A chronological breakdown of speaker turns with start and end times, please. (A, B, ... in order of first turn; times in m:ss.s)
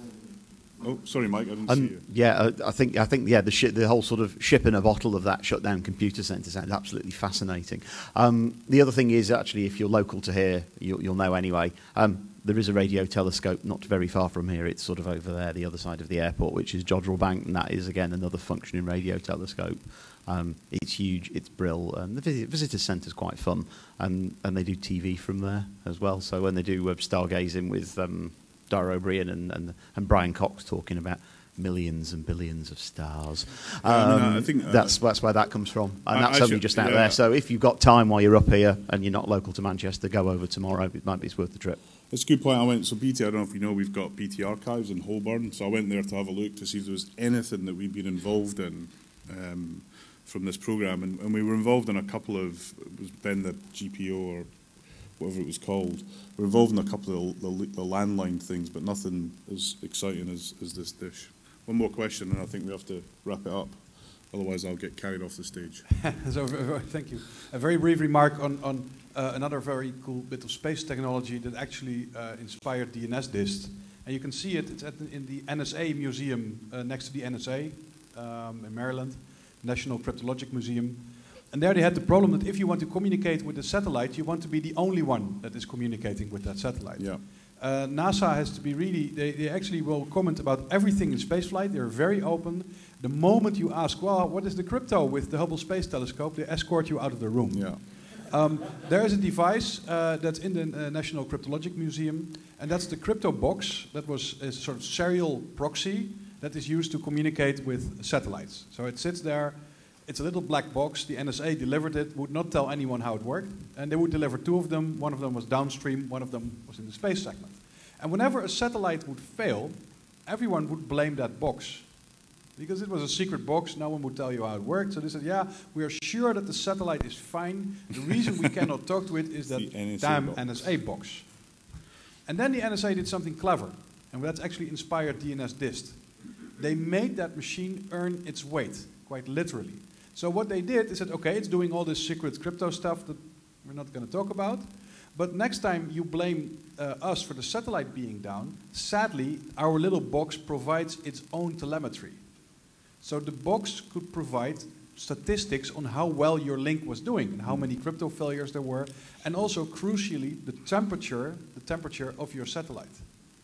0:00.8-0:02.0 A
0:01.7-0:41.8 B
0:33.8-0:35.0 A
0:36.1-0:37.2 A
0:42.1-0:54.5 A
0:55.2-1:03.8 A
1:04.3-1:05.8 A
1:06.0-2:01.9 C
1:37.5-1:37.8 A
2:02.5-2:11.4 C
2:09.5-2:10.5 A
2:12.2-2:32.2 C
2:33.0-2:43.1 C